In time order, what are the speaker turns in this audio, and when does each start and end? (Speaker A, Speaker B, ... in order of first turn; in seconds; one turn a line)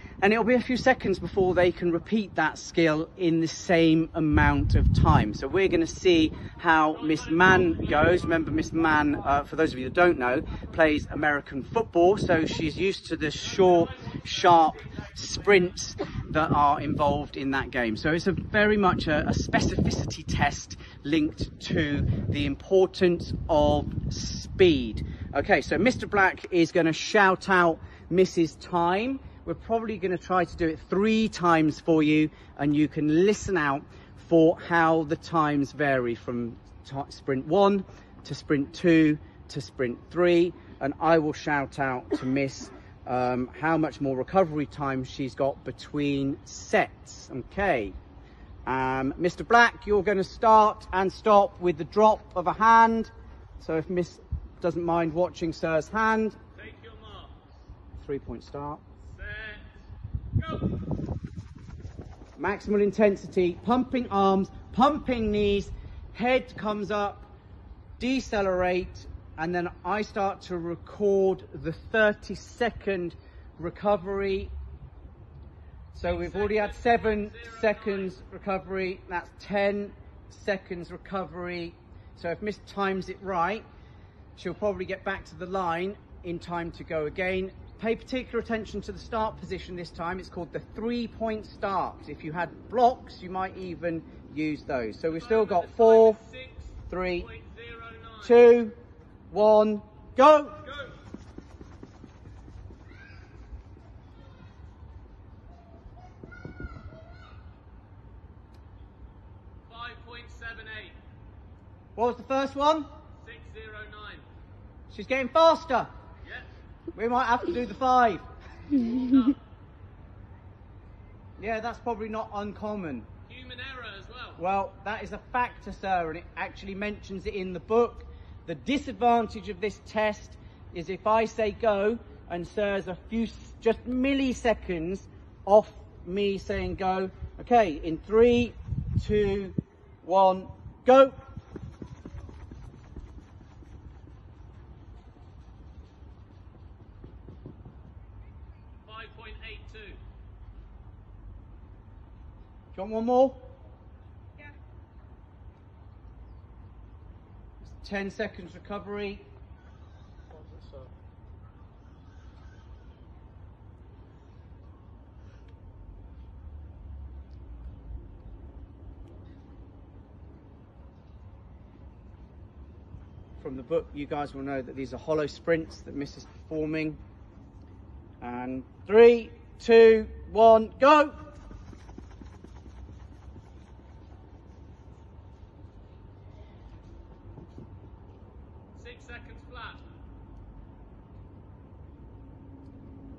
Speaker A: 0.2-48.0
Speaker B: 7.2-7.9
Speaker A: 48.7-56.4
Speaker B: 56.6-57.4
Speaker A: 58.0-58.8
Speaker B: 59.1-59.7
Speaker B: 60.4-60.7
Speaker A: 62.4-67.3
Speaker A: 68.0-74.5
Speaker A: 75.9-83.7
Speaker B: 76.0-78.1
Speaker A: 84.4-96.2
Speaker B: 95.1-98.3
Speaker A: 96.9-97.3
Speaker A: 98.2-98.8
Speaker A: 99.3-100.7
Speaker B: 109.7-111.0
Speaker A: 112.0-112.9
Speaker B: 113.2-114.2
Speaker A: 114.9-115.9
Speaker A: 116.9-118.2
Speaker B: 118.8-119.4
Speaker A: 121.4-123.1
Speaker B: 123.3-124.4
Speaker A: 124.4-141.2
Speaker B: 148.8-150.0
Speaker A: 152.7-153.5
Speaker A: 157.6-159.2
Speaker A: 173.4-177.0
Speaker A: 178.2-181.2
Speaker B: 188.8-189.8